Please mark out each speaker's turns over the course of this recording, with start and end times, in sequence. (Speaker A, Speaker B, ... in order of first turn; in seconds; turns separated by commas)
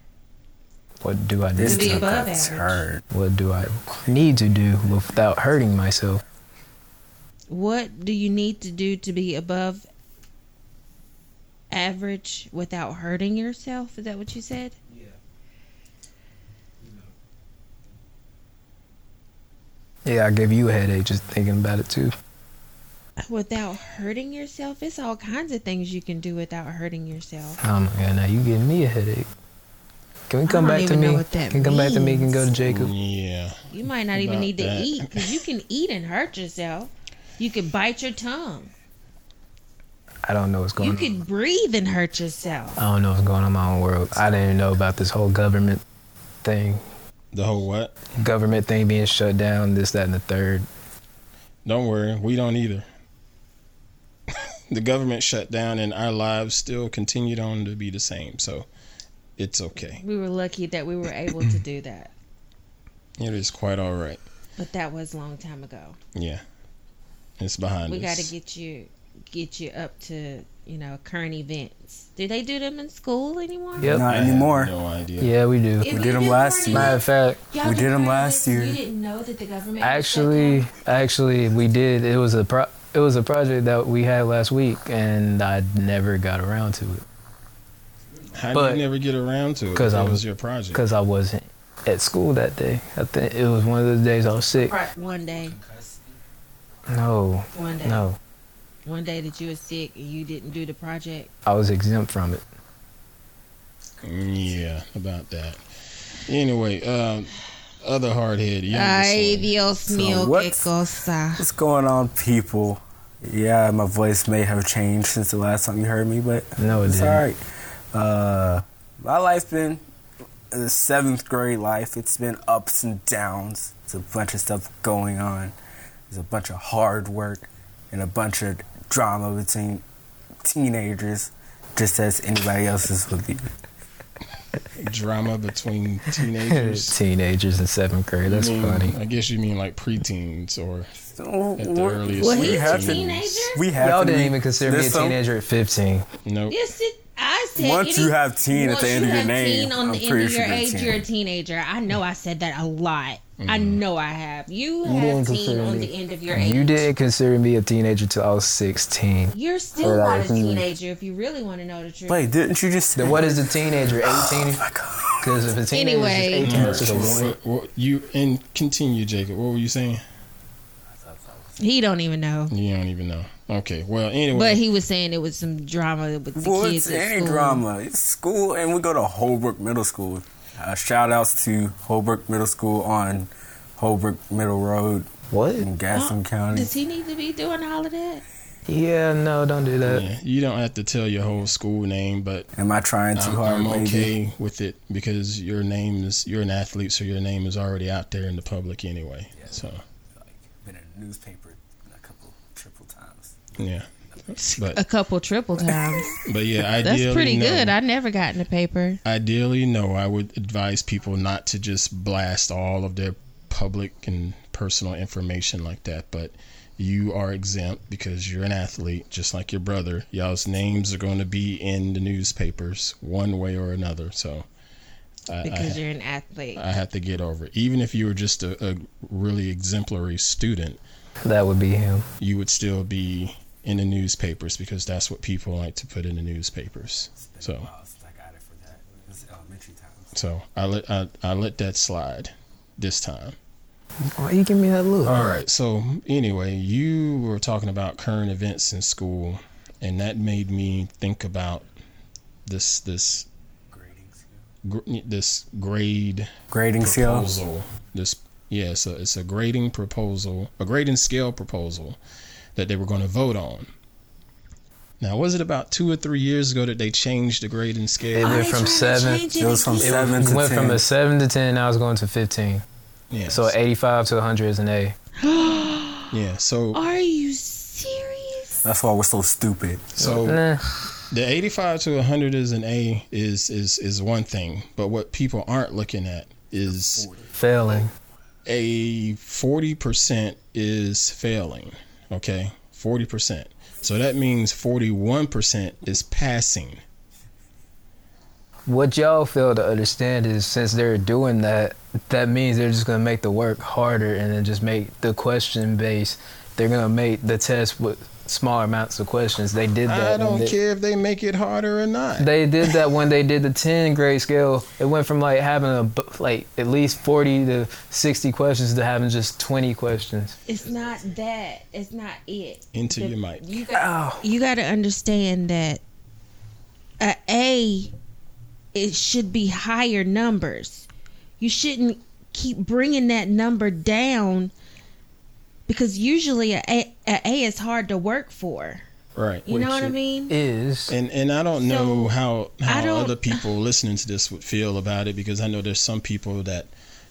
Speaker A: 1.0-2.2, Speaker B: 1.6-3.0, Speaker C: 1.6-2.8, Speaker A: 3.1-6.2, Speaker C: 7.5-9.8, Speaker C: 11.7-14.8, Speaker A: 20.1-22.1, Speaker C: 23.2-27.6, Speaker A: 27.6-29.3, Speaker A: 30.3-32.9, Speaker C: 30.5-32.5, Speaker D: 32.5-35.4, Speaker C: 33.7-38.7, Speaker A: 40.2-41.2, Speaker C: 40.8-42.8, Speaker A: 42.8-45.8, Speaker A: 46.4-46.9, Speaker D: 47.3-47.9, Speaker A: 48.1-50.6, Speaker D: 51.6-52.9, Speaker D: 54.3-58.7, Speaker D: 59.4-60.0, Speaker C: 60.0-62.1, Speaker D: 63.2-64.2, Speaker C: 64.6-66.0, Speaker D: 66.1-66.4, Speaker D: 67.4-68.3, Speaker C: 67.9-74.0, Speaker A: 73.8-74.1, Speaker B: 73.8-74.7, Speaker D: 74.0-75.3, Speaker A: 75.2-75.9, Speaker C: 75.8-80.7, Speaker B: 75.8-77.0, Speaker A: 76.7-77.4, Speaker B: 77.6-78.8, Speaker A: 79.8-87.0, Speaker D: 88.3-90.8, Speaker A: 88.5-88.8, Speaker A: 89.7-94.7, Speaker C: 94.6-95.6, Speaker B: 95.5-96.0, Speaker A: 96.9-98.2, Speaker C: 97.5-98.0, Speaker C: 98.8-101.3, Speaker A: 101.4-102.4, Speaker D: 104.0-105.6, Speaker D: 106.2-109.5, Speaker C: 108.7-111.4, Speaker B: 109.9-110.7, Speaker B: 111.4-117.4, Speaker A: 116.6-117.2, Speaker B: 117.9-119.8, Speaker B: 120.5-125.5, Speaker B: 126.1-129.8, Speaker B: 130.4-133.5, Speaker D: 134.8-136.9, Speaker A: 136.2-138.9, Speaker D: 138.2-140.9, Speaker B: 141.0-145.2, Speaker D: 141.6-143.5, Speaker C: 142.2-143.6, Speaker A: 143.8-146.1, Speaker D: 146.2-146.6, Speaker C: 146.5-156.9, Speaker B: 147.6-151.1, Speaker D: 153.4-153.8, Speaker A: 154.8-160.7, Speaker C: 159.3-162.2, Speaker B: 162.1-165.6, Speaker A: 162.9-164.6, Speaker A: 165.2-167.3, Speaker C: 165.7-166.9, Speaker D: 166.4-170.0, Speaker B: 166.9-167.1, Speaker B: 171.1-171.5, Speaker C: 171.6-172.5, Speaker D: 172.5-174.6, Speaker C: 174.3-177.6, Speaker B: 176.3-186.7, Speaker A: 185.3-185.7, Speaker C: 185.9-188.2, Speaker A: 188.7-190.1, Speaker D: 189.8-192.5, Speaker B: 192.5-194.1, Speaker D: 193.2-199.8, Speaker B: 200.1-203.5, Speaker D: 203.6-204.8, Speaker C: 204.4-206.2, Speaker D: 206.1-207.8, Speaker C: 206.8-209.0, Speaker D: 209.0-224.4, Speaker D: 225.3-225.8, Speaker C: 225.4-226.6, Speaker D: 226.5-230.8, Speaker A: 231.2-232.1, Speaker D: 232.2-237.7, Speaker B: 237.2-240.2, Speaker D: 240.1-243.3, Speaker A: 244.1-245.2, Speaker D: 245.0-251.7, Speaker D: 252.4-253.3, Speaker B: 253.7-254.4, Speaker D: 254.6-262.0, Speaker B: 256.5-257.3, Speaker D: 262.6-263.7, Speaker D: 265.0-268.5, Speaker A: 268.1-272.6, Speaker C: 268.1-270.2, Speaker B: 269.4-270.8, Speaker D: 273.1-273.5, Speaker A: 273.3-274.9, Speaker C: 275.2-276.1, Speaker D: 276.1-276.8, Speaker C: 276.7-278.6, Speaker B: 278.6-280.0, Speaker D: 279.9-280.4, Speaker A: 280.0-280.6, Speaker D: 281.1-287.1, Speaker A: 287.3-287.9, Speaker D: 288.4-296.8, Speaker A: 298.7-310.6, Speaker D: 309.9-312.3, Speaker A: 312.2-320.4, Speaker C: 320.5-325.8, Speaker D: 322.7-323.6, Speaker A: 323.7-324.2, Speaker C: 327.0-327.9, Speaker C: 328.7-330.9, Speaker C: 331.4-334.5, Speaker C: 335.7-338.8, Speaker D: 339.1-339.5, Speaker C: 339.4-340.3, Speaker A: 339.5-340.9, Speaker D: 340.9-346.7, Speaker C: 341.6-342.1, Speaker C: 342.7-343.4